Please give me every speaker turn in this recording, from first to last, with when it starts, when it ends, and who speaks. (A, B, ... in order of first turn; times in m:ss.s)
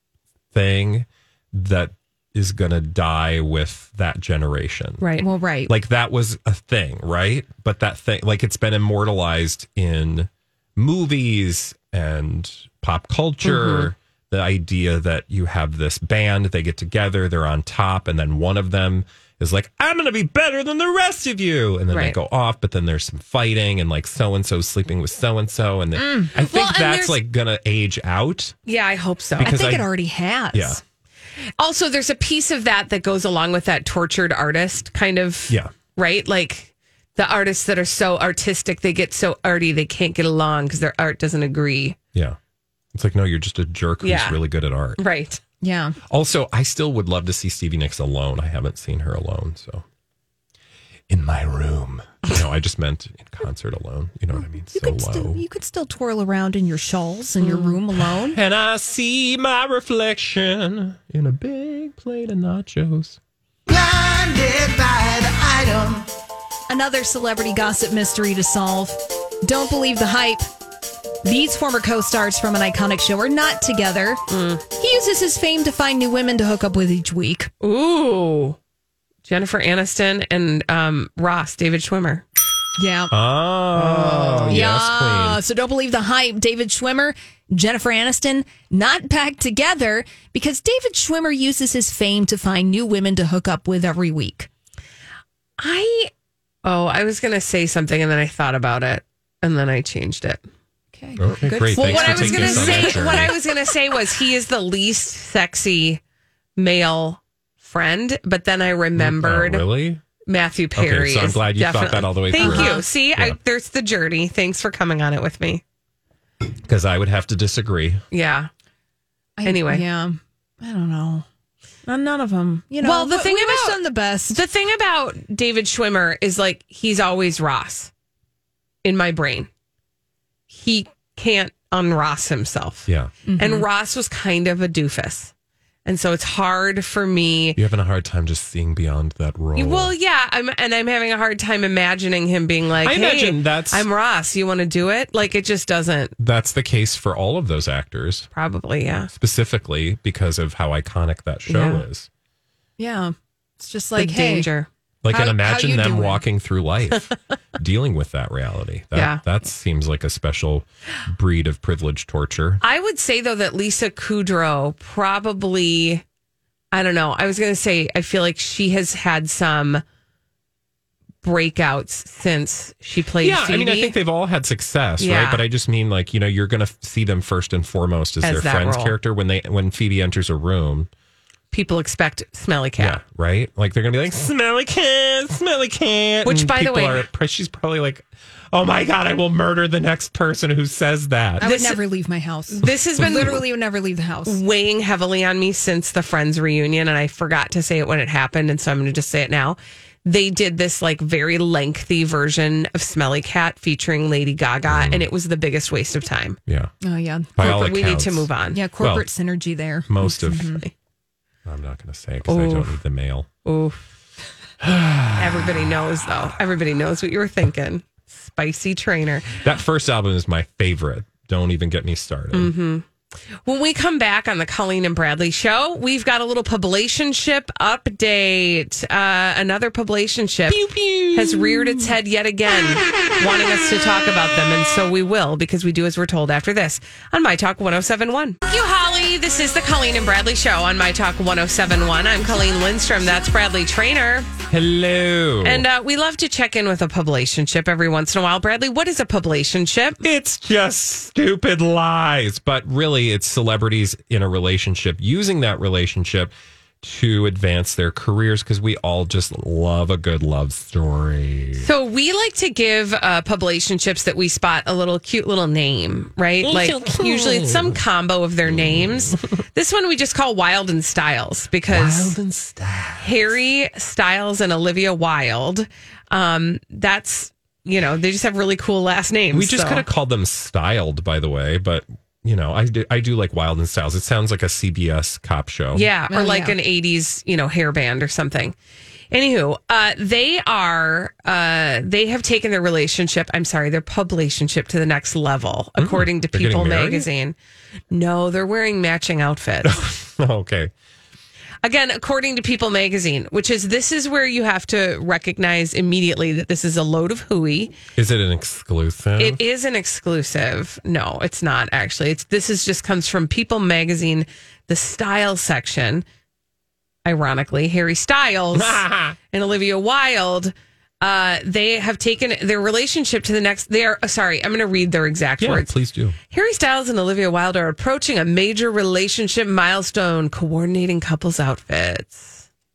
0:00.5-0:05.0 A
0:05.0-0:05.2 B
0:05.2-0:05.7 C
0:05.7-0:28.6 A
0:13.4-0:13.9 B
0:21.9-0:22.2 B
0:26.0-0:26.3 C
0:26.3-0:27.2 B
0:28.6-0:29.6 B
0:29.4-0:29.9 A
0:29.4-0:30.8 C
0:30.5-0:30.8 A
0:31.6-0:42.0 B
0:42.9-0:45.0 A
0:44.0-0:44.4 B
0:45.0-0:45.4 B
0:45.6-0:46.0 C
0:46.1-0:49.8 A
0:51.1-0:55.4 A
0:54.4-0:58.4 C
0:57.4-0:57.7 B
0:58.0-1:03.2 A
1:04.1-1:06.0 A
1:06.7-1:10.4 C
1:11.2-1:14.2 C
1:14.3-1:14.6 B
1:14.8-1:17.5 C
1:17.6-1:18.6 B
1:19.2-1:22.2 B
1:22.8-1:23.1 C
1:23.1-1:25.4 A
1:23.9-1:24.6 B
1:23.9-1:34.5 C
1:35.6-1:36.1 B
1:36.6-1:40.4 B
1:40.9-1:43.5 C
1:41.2-1:43.3 A
1:41.7-1:46.0 B
1:46.6-1:49.6 B
1:49.0-1:50.0 A
1:50.3-1:55.6 B
1:50.7-1:53.4 A
1:52.3-1:52.8 C
1:56.6-1:58.0 A
1:58.1-1:58.5 B
1:59.4-2:01.2 C
1:59.4-1:59.8 B
2:01.8-2:04.4 C
2:02.8-2:07.9 B
2:08.8-2:09.5 B
2:10.5-2:15.3 B
2:12.9-2:13.1 A
2:13.2-2:13.6 C
2:15.8-2:17.6 B
2:17.6-2:19.9 A
2:19.5-2:26.1 B
2:22.8-2:23.8 A
2:26.2-2:28.3 A
2:28.3-2:29.1 B
2:29.1-2:32.1 A
2:31.5-2:31.8 B
2:32.8-2:34.5 C
2:34.0-2:34.7 B
2:35.0-2:42.6 A
2:35.1-2:36.2 C
2:38.9-2:39.2 B
2:42.6-2:46.0 B
2:46.7-2:49.8 B
2:51.2-2:54.0 B
2:53.2-3:00.9 A
2:55.0-2:55.4 B
2:58.2-2:59.0 B
3:01.5-3:03.0 B
3:02.8-3:11.4 A
3:06.2-3:07.0 B
3:11.4-3:14.4 C
3:11.4-3:11.8 B
3:12.5-3:13.3 B
3:13.0-3:13.4 A
3:14.2-3:26.4 B
3:24.7-3:25.1 A
3:26.5-3:26.7 A
3:26.8-3:27.5 C
3:27.4-3:29.1 A
3:27.4-3:28.6 B
3:28.5-3:30.6 C
3:29.9-3:30.6 A
3:30.1-3:30.7 B
3:31.4-3:33.3 A
3:32.2-3:32.8 B
3:33.4-3:33.8 B
3:34.6-3:36.3 A
3:35.2-3:39.4 B
3:39.4-3:42.5 A
3:42.3-3:42.8 B
3:43.4-3:50.6 B
3:50.5-3:51.8 A
3:51.1-4:04.3 B
4:04.5-4:05.6 A
4:05.4-4:10.0 B
4:10.0-4:21.7 A
4:21.6-4:32.2 B
4:26.4-4:27.8 A
4:28.4-4:29.2 A
4:31.7-4:33.4 A
4:33.0-4:39.8 B
4:39.3-4:45.9 A
4:45.7-4:48.5 B
4:46.1-4:46.6 C
4:49.1-4:57.4 B
4:55.8-4:57.1 A
4:57.9-4:59.8 B
4:59.6-5:00.7 A
5:01.6-5:07.7 B
5:08.0-5:09.4 A
5:09.2-5:16.0 B
5:17.0-5:25.7 B
5:18.5-5:19.2 A
5:25.4-5:26.2 A
5:26.3-5:32.4 B